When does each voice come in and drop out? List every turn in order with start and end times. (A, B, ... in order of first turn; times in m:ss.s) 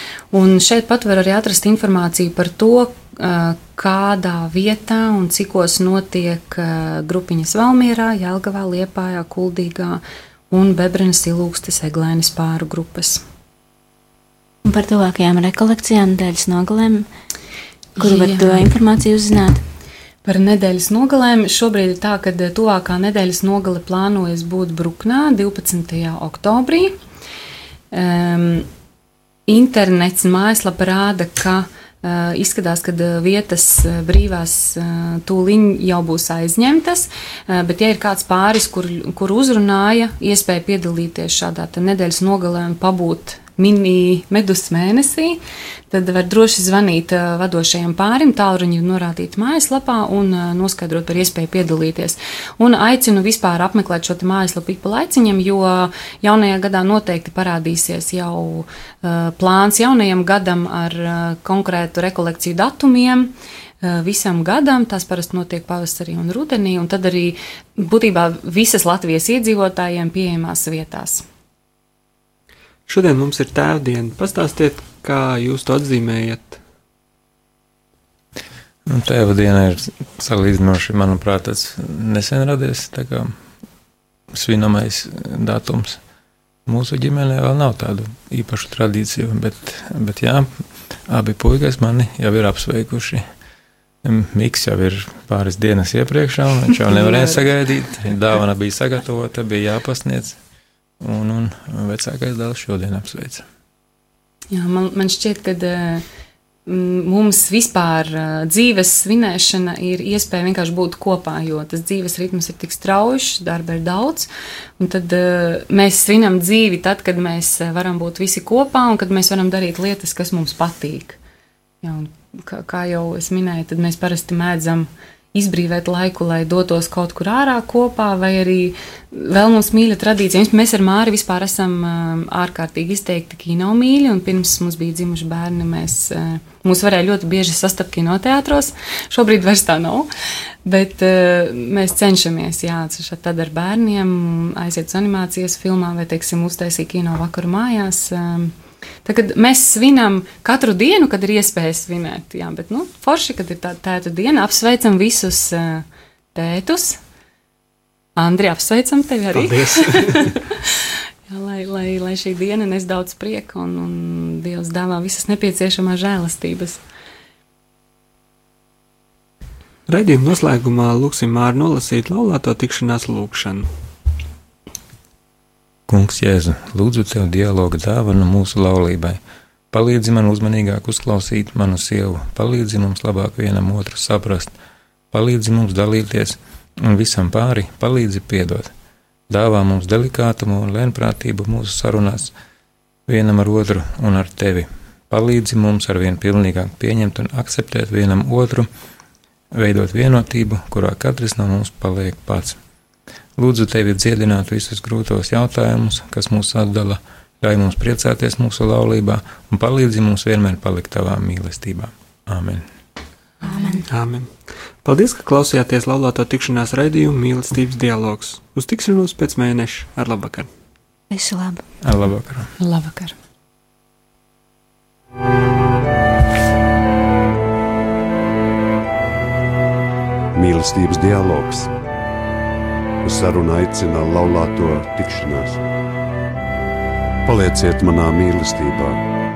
0:00.3-0:13.2 A
0:14.6-0:17.1 B
0:18.0-0:19.6 B
0:18.0-0:18.6 A
0:20.2-0:27.0 A
0:27.9-0:28.7 A
0:29.5-1:11.2 A
1:12.9-1:16.6 C
1:18.9-1:23.3 D
1:24.3-1:26.0 D
1:26.7-1:30.5 D
1:31.1-1:33.2 D
1:34.0-1:40.4 D
1:36.9-1:37.5 A
1:41.0-1:43.4 D
1:44.5-1:46.0 A
1:46.7-2:01.2 A
2:01.8-2:20.1 A
2:20.6-2:28.5 A
2:29.0-2:37.0 A
2:38.2-2:46.8 A
2:39.3-2:40.4 C
2:49.9-2:53.7 C
2:55.9-2:59.2 D
2:59.7-3:04.5 D
3:05.1-3:08.7 D
3:09.3-3:12.3 D
3:13.1-3:18.7 D
3:19.5-3:22.6 D
3:23.4-3:32.6 D
3:33.4-3:33.8 B
3:33.8-3:40.5 C
3:41.1-3:41.6 B
3:41.8-3:42.5 D
3:42.6-3:43.2 A
3:50.3-3:51.7 E
3:53.0-3:55.6 E
3:57.3-3:59.0 E